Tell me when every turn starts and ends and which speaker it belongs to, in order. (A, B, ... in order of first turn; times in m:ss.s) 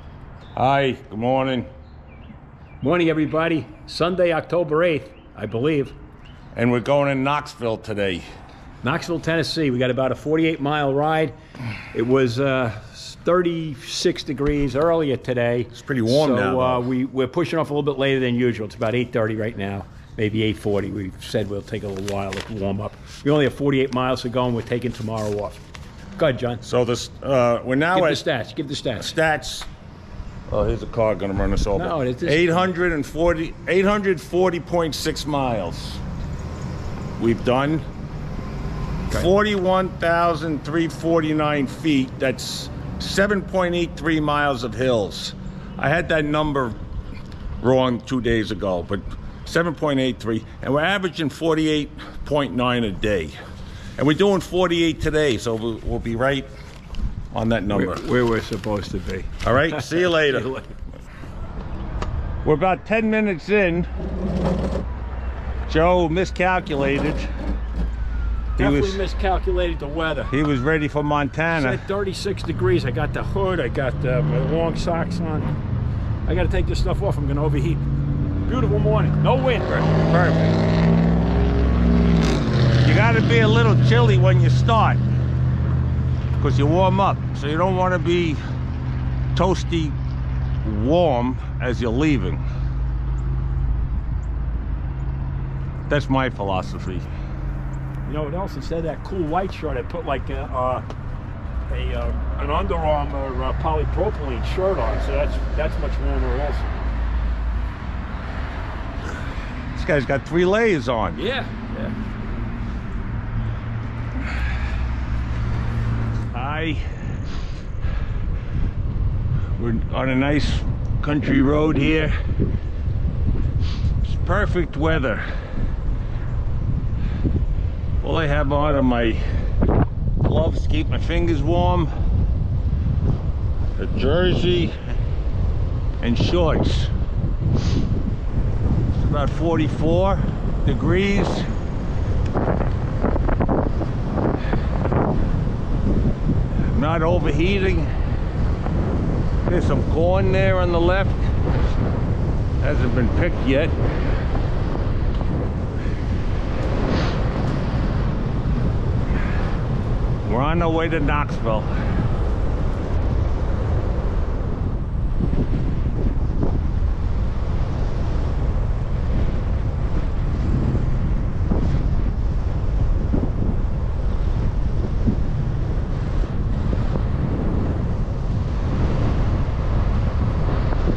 0:00.6-0:01.7 A
0:02.8-0:05.9 B
0:06.5-0:08.2 A
0:08.8-0:11.3 B
0:11.9-0:25.6 B
0:15.7-0:16.8 A
0:26.2-0:26.6 B
0:26.6-0:28.2 A
0:27.9-0:29.2 B
0:29.0-0:29.7 A
0:30.5-0:36.0 A
0:31.7-0:32.7 B
0:37.2-0:37.8 A
0:39.1-0:46.8 A
0:47.6-0:53.3 A
0:54.0-0:56.5 A
0:57.3-0:58.0 A
0:57.7-1:00.7 B
0:59.4-1:00.5 A
1:02.4-1:03.9 A
1:05.7-1:07.3 A
1:08.6-1:10.3 B
1:08.6-1:09.0 A
1:10.3-1:11.8 A
1:11.5-1:15.5 B
1:16.2-1:17.8 B
1:18.4-1:19.9 B
1:19.7-1:20.6 A
1:22.8-1:25.0 A
1:26.4-1:28.4 A
1:29.3-1:30.0 A
1:30.6-1:32.4 A
1:35.9-1:37.1 A
1:38.0-1:40.8 B
1:41.7-1:46.7 B
1:49.7-1:51.2 A
1:51.1-1:51.9 B
1:56.3-1:56.9 A
1:59.6-2:02.2 A
2:04.0-2:05.2 A
2:08.0-2:09.2 A
2:10.2-2:11.9 A
2:13.8-2:14.7 A
2:16.0-2:16.9 A
2:18.9-2:21.5 A
2:26.7-2:27.9 A
2:29.4-2:31.3 A
2:32.6-2:33.8 A
2:40.2-2:41.7 A